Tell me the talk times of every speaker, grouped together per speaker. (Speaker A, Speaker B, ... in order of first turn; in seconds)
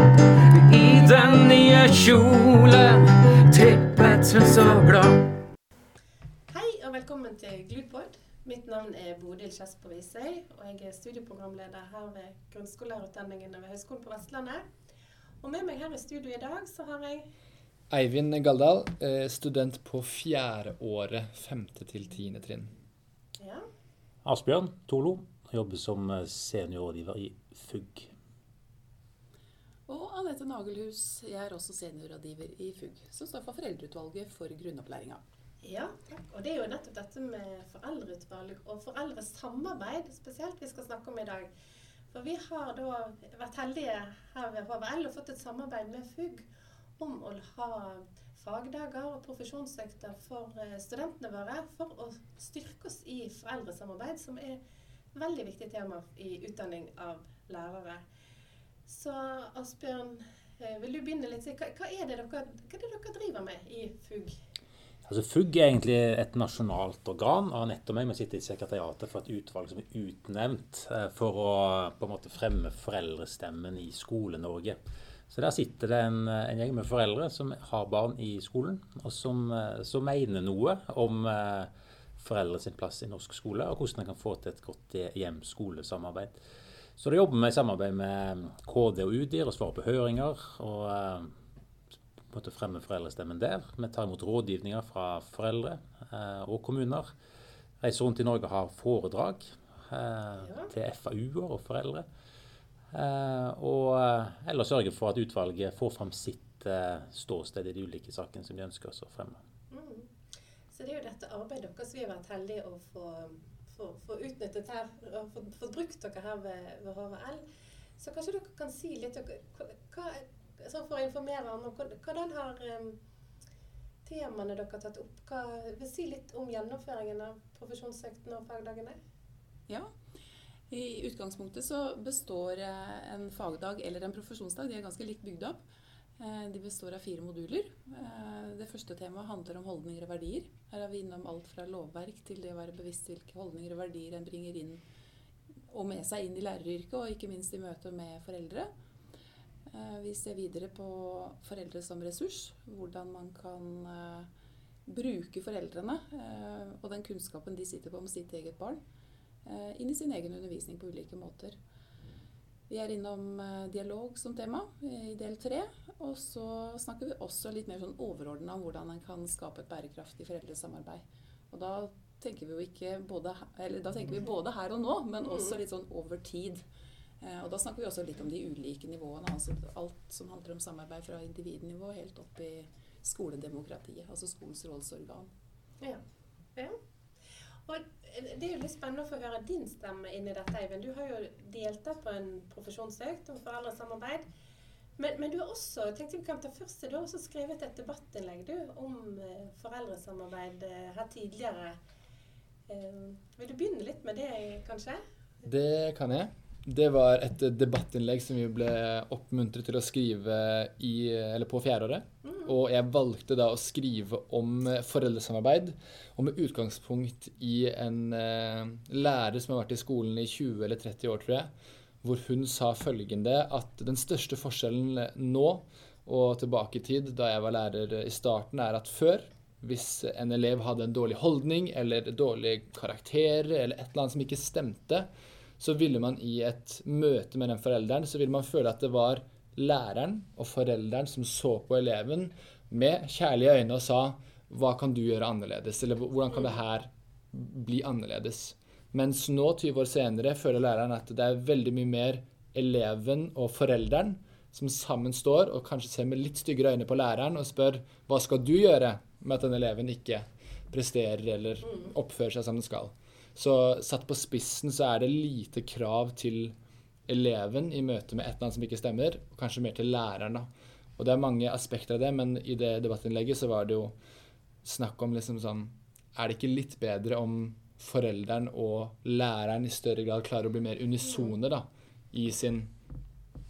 Speaker A: 0.6-5.4
Speaker B: 1.0-1.4, 6.5-14.6, 15.4-17.3, 23.4-23.6, 35.6-41.5, 42.1-54.6, 55.1-58.0, 58.9-64.3, 100.4-100.7, 109.7-110.1, 110.7-117.4, 118.0-123.0, 124.0-129.0, 187.7-194.2, 195.0-201.8, 202.7-205.0, 212.2-212.5, 261.6-261.9, 281.0-281.3
Speaker C: 17.9-22.7, 205.4-221.5, 222.0-235.1, 235.6-266.5, 267.1-274.0, 274.6-282.7
Speaker D: 24.2-28.1, 65.0-74.8, 75.3-86.4, 87.0-91.3, 92.3-97.1, 97.8-102.0, 102.9-109.4
Speaker E: 29.9-35.2, 130.7-135.6, 136.2-144.8, 145.7-148.7, 149.7-154.3, 154.8-158.8, 159.4-161.6, 162.7-176.6, 177.2-185.3